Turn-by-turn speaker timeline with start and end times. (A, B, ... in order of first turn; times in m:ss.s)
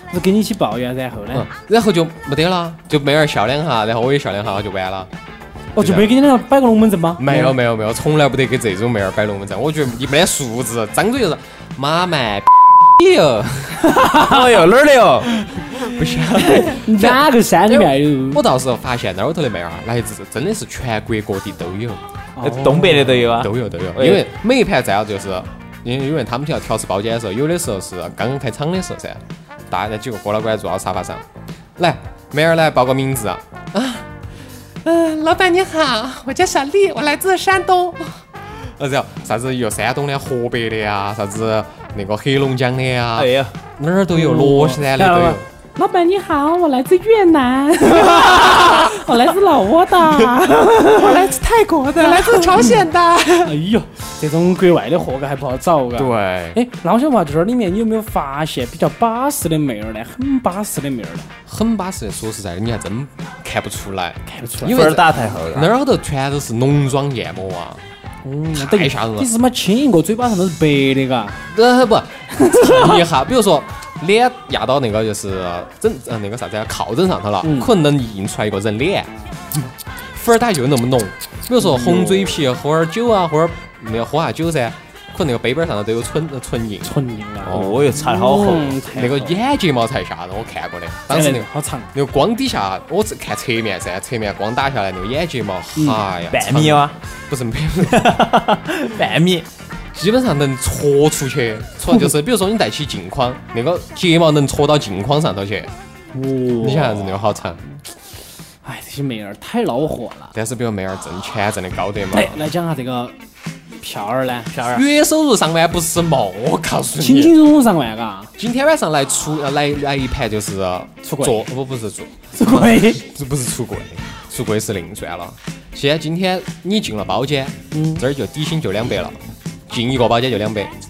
0:00.1-0:01.5 A
0:01.3-0:05.1 B
0:05.8-0:06.1 B
0:05.8-0:07.5 A
0:07.2-0:13.9 B
0:13.9-0:14.4 A
0:14.2-0:15.3 C
0:15.6-0:22.0 B
0:16.4-0:18.4 A
0:22.4-0:23.2 A
0:22.4-0:24.2 C
0:22.9-0:31.2 B
0:31.8-0:34.1 B
0:34.8-0:45.4 B
0:43.1-0:43.5 C
0:44.1-0:51.4 A
0:48.0-0:49.0 B
0:50.9-0:53.5 B
0:52.0-0:52.8 A
0:53.4-1:01.3 A
0:56.0-0:56.6 B
1:01.5-1:07.8 B
1:04.2-1:04.8 A
1:04.6-1:05.7 C
1:08.2-1:11.4 A
1:08.6-1:09.3 B
1:11.5-1:19.1 B
1:12.3-1:13.0 A
1:17.4-1:17.7 A
1:19.6-1:38.1 B
1:21.6-1:22.4 A
1:26.8-1:29.4 A
1:27.5-1:28.7 C
1:31.1-1:31.9 A
1:35.8-1:36.0 A
1:36.3-1:37.0 C
1:37.8-1:39.5 C
1:39.9-1:45.7 B
1:46.1-1:47.2 A
1:46.6-1:47.6 B
1:48.6-1:50.3 A
1:50.3-1:52.4 B
1:52.1-1:53.1 A
1:53.8-1:54.8 A
1:54.6-1:57.3 B
1:57.0-1:58.3 A
1:58.4-2:10.7 B
2:01.0-2:01.5 A
2:02.3-2:03.0 A
2:07.7-2:08.0 A